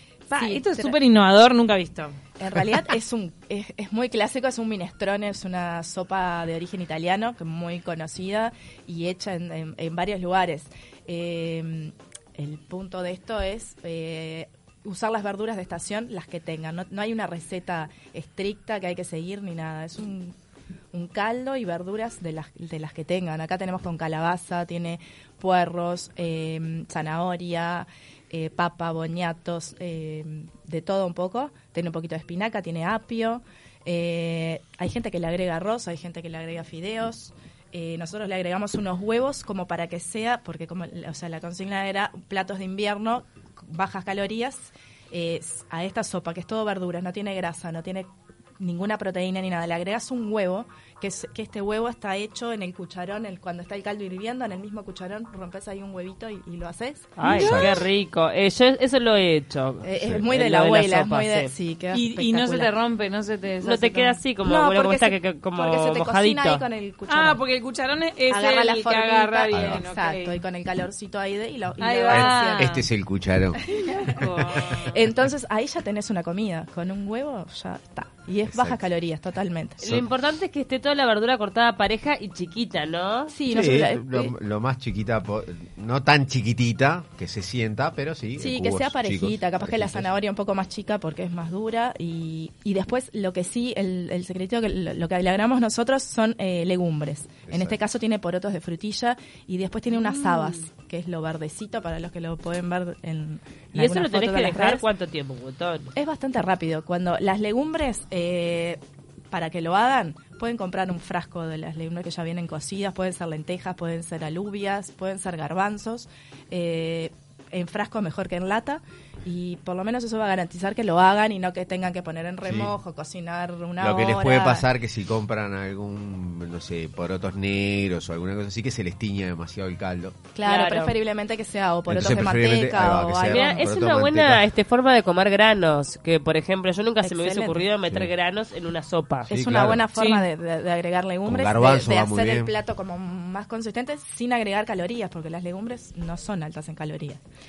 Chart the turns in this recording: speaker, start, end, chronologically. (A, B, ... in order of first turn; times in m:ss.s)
0:00.3-0:02.2 A
0:00.4-0:01.0 B
0:02.4-0:20.3 B
0:20.9-0:48.1 B
0:48.6-0:57.2 B
0:57.2-1:01.5 C
0:57.2-0:57.8 A
0:57.3-0:57.8 D
0:59.8-1:02.7 B
1:01.9-1:04.2 A
1:03.6-1:06.6 C
1:04.4-1:07.4 B
1:07.1-1:10.4 A
1:08.3-1:12.8 B
1:09.5-1:09.8 D
1:11.8-1:12.8 A
1:12.1-1:13.6 D
1:13.7-1:19.8 B
1:14.2-1:15.0 C
1:18.5-1:18.8 D
1:19.8-1:23.3 C
1:23.3-1:24.4 B
1:23.5-1:30.1 D
1:28.4-1:44.8 B
1:37.5-1:37.8 D
1:39.9-1:40.6 C
1:43.8-1:45.9 C
1:46.0-1:48.8 B
1:49.3-2:04.7 B
2:02.4-2:02.7 D
2:03.8-2:10.2 D
2:10.3-2:13.7 B
2:10.4-2:11.0 C
2:11.9-2:14.4 D
2:13.2-2:19.3 C
2:17.0-2:17.7 B
2:19.3-2:27.2 B
2:19.3-2:19.9 D
2:19.9-2:20.2 A
2:21.2-2:22.6 D